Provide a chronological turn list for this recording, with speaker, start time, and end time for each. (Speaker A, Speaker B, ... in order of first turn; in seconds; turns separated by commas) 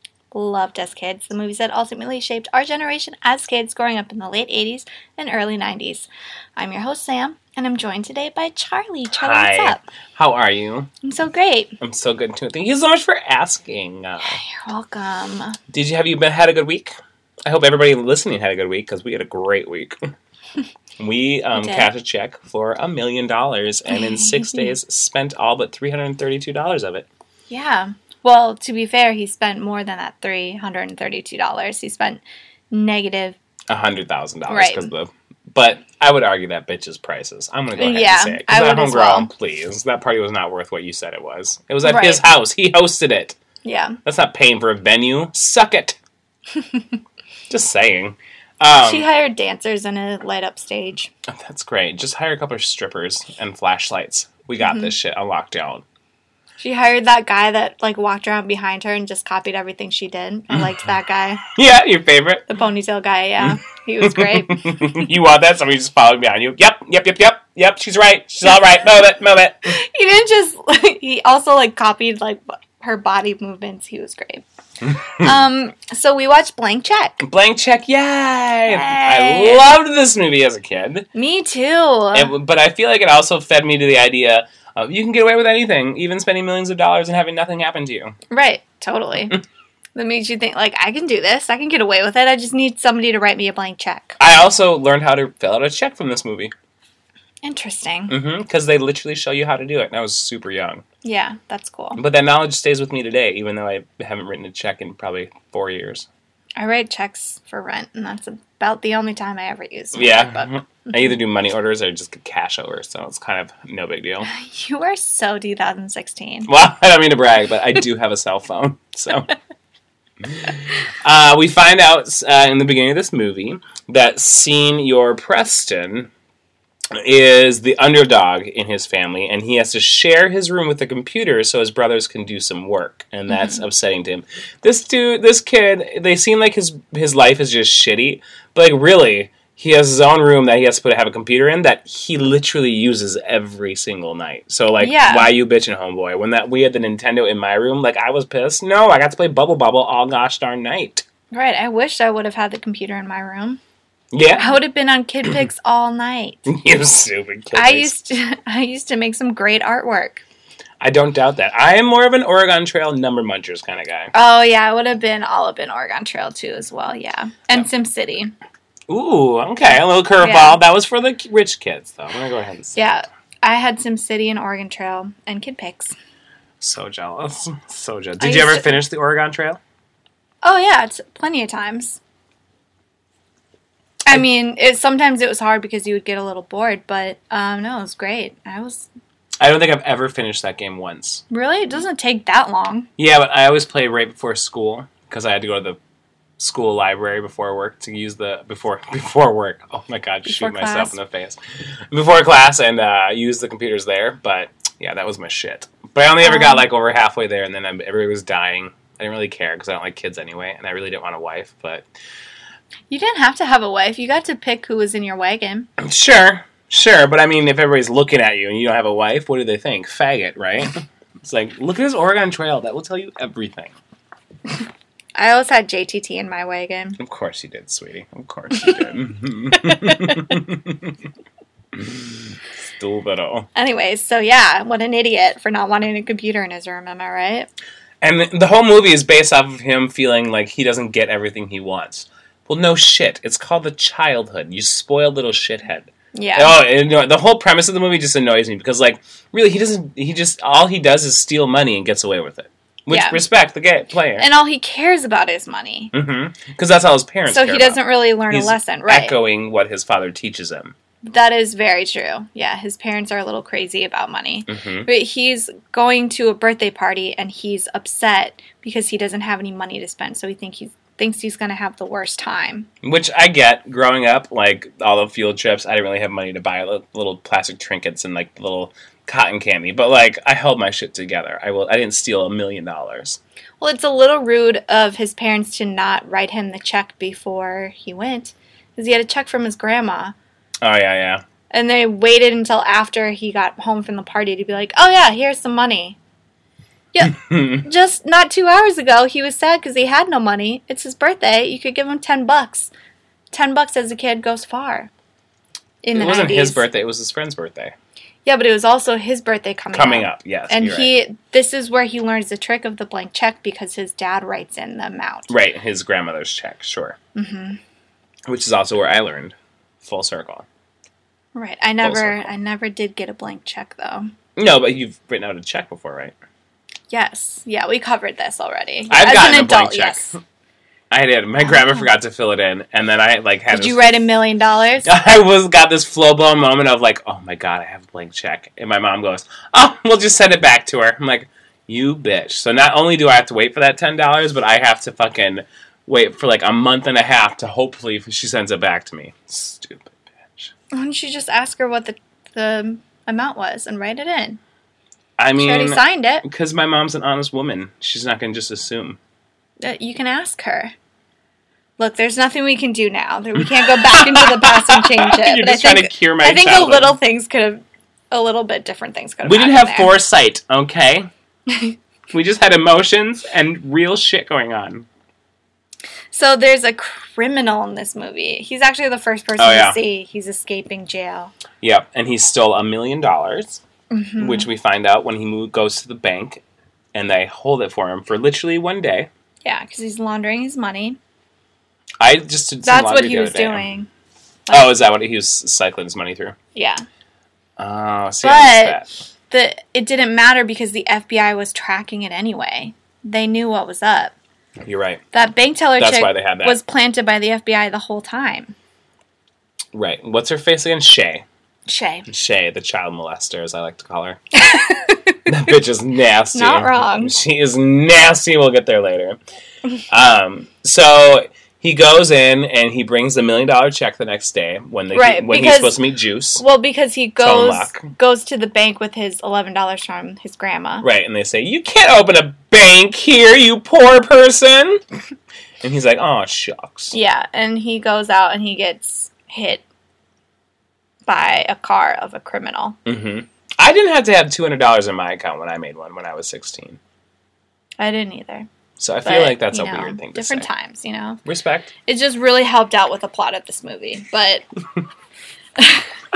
Speaker A: 0.3-9.8, Speaker B: 9.1-10.9, Speaker A: 11.0-11.8, Speaker B: 11.8-14.4, Speaker A: 14.2-15.6, Speaker B: 15.7-16.9, Speaker B: 17.5-20.0, Speaker B: 21.0-27.1, Speaker A: 21.6-21.9, Speaker A: 23.9-24.7, Speaker A: 27.5-33.4, Speaker B: 33.7-43.4, Speaker A: 34.5-34.9, Speaker A: 37.8-39.3, Speaker A: 41.8-42.2, Speaker A: 43.6-44.0, Speaker B: 44.0-46.0, Speaker A: 46.6-47.0, Speaker B: 47.5-49.1, Speaker A: 48.8-51.1, Speaker B: 51.3-55.8, Speaker A: 54.6-54.9, Speaker A: 56.6-61.4, Speaker B: 61.4-62.5, Speaker A: 62.5-64.9, Speaker B: 63.4-69.8, Speaker A: 69.7-74.4, Speaker B: 74.9-75.3, Speaker A: 75.0-77.2, Speaker B: 77.2-81.1, Speaker A: 78.7-79.6, Speaker A: 81.1-82.3, Speaker B: 82.1-88.2, Speaker A: 88.3-89.4, Speaker A: 90.0-94.2, Speaker B: 94.2-96.5, Speaker A: 97.4-98.2, Speaker B: 98.1-100.8, Speaker A: 101.0-102.0, Speaker B: 102.0-106.1, Speaker A: 106.6-111.0, Speaker B: 109.9-114.3, Speaker A: 114.2-116.5, Speaker B: 116.5-119.3, Speaker B: 120.2-126.1, Speaker B: 127.0-151.1, Speaker A: 133.3-133.6, Speaker A: 144.8-145.3, Speaker A: 151.3-153.6, Speaker B: 154.1-154.6, Speaker A: 154.4-156.5, Speaker B: 156.5-157.9, Speaker A: 157.5-160.2, Speaker B: 160.8-164.1, Speaker A: 164.1-168.3, Speaker B: 168.9-172.8, Speaker A: 170.2-170.6, Speaker A: 172.8-175.9, Speaker B: 176.6-179.6, Speaker A: 178.2-178.8, Speaker A: 180.4-182.0, Speaker A: 184.1-188.9, Speaker B: 189.4-191.2, Speaker A: 191.3-192.9, Speaker B: 193.0-195.8, Speaker B: 196.4-201.4, Speaker A: 200.2-201.0, Speaker B: 201.9-211.8, Speaker A: 206.2-206.7, Speaker A: 212.9-215.7, Speaker B: 215.8-223.7, Speaker A: 225.2-227.0, Speaker B: 227.0-231.0, Speaker A: 229.5-230.3, Speaker B: 231.7-233.5, Speaker A: 233.6-237.5, Speaker B: 238.0-254.3, Speaker A: 246.1-246.6, Speaker A: 252.9-253.2, Speaker A: 254.2-255.9, Speaker B: 255.9-260.8, Speaker A: 257.3-259.2, Speaker A: 261.1-272.7, Speaker B: 264.5-264.9, Speaker B: 272.8-283.2, Speaker A: 283.6-290.1, Speaker B: 290.6-291.2, Speaker A: 291.5-296.0, Speaker A: 296.9-302.7, Speaker B: 297.0-297.6, Speaker A: 303.3-304.9, Speaker A: 305.8-306.6, Speaker B: 305.9-307.8, Speaker A: 308.2-315.3, Speaker B: 309.7-311.0, Speaker B: 315.3-317.0, Speaker A: 317.1-317.6, Speaker B: 318.3-320.4, Speaker A: 321.4-324.1, Speaker B: 321.8-322.3, Speaker B: 324.4-326.1, Speaker A: 326.9-330.2, Speaker B: 328.9-330.2, Speaker B: 330.9-333.8, Speaker A: 331.4-331.9, Speaker A: 333.5-334.9, Speaker B: 334.9-350.5, Speaker A: 350.7-354.4, Speaker B: 355.2-359.0, Speaker A: 355.4-356.2, Speaker A: 359.6-360.7, Speaker A: 361.8-369.9, Speaker B: 363.6-366.9, Speaker B: 369.2-371.1, Speaker A: 371.5-371.8, Speaker B: 372.1-374.9, Speaker A: 376.1-381.3, Speaker B: 379.4-379.8, Speaker B: 381.6-383.6, Speaker A: 383.9-384.5, Speaker B: 384.2-386.4, Speaker B: 386.9-389.1, Speaker A: 389.4-391.0, Speaker B: 392.0-393.7, Speaker A: 392.6-393.9, Speaker A: 394.5-394.8, Speaker B: 394.5-396.4, Speaker A: 396.6-396.9, Speaker B: 397.6-398.9, Speaker A: 398.2-404.1, Speaker B: 404.6-405.0, Speaker A: 405.1-408.6, Speaker B: 405.8-406.6, Speaker B: 409.7-411.2, Speaker A: 411.7-412.1, Speaker B: 412.1-414.2, Speaker A: 414.4-415.3, Speaker B: 415.3-419.2, Speaker A: 416.3-417.1, Speaker B: 419.9-426.4, Speaker A: 424.9-425.8, Speaker A: 426.4-430.9, Speaker B: 427.2-427.9, Speaker B: 430.8-434.8, Speaker B: 435.6-436.9, Speaker A: 436.9-439.6, Speaker A: 441.1-442.8, Speaker B: 442.9-446.8, Speaker A: 447.8-448.5, Speaker B: 448.8-450.5, Speaker A: 449.0-451.2, Speaker B: 451.2-451.7, Speaker A: 451.9-454.4, Speaker A: 455.6-455.8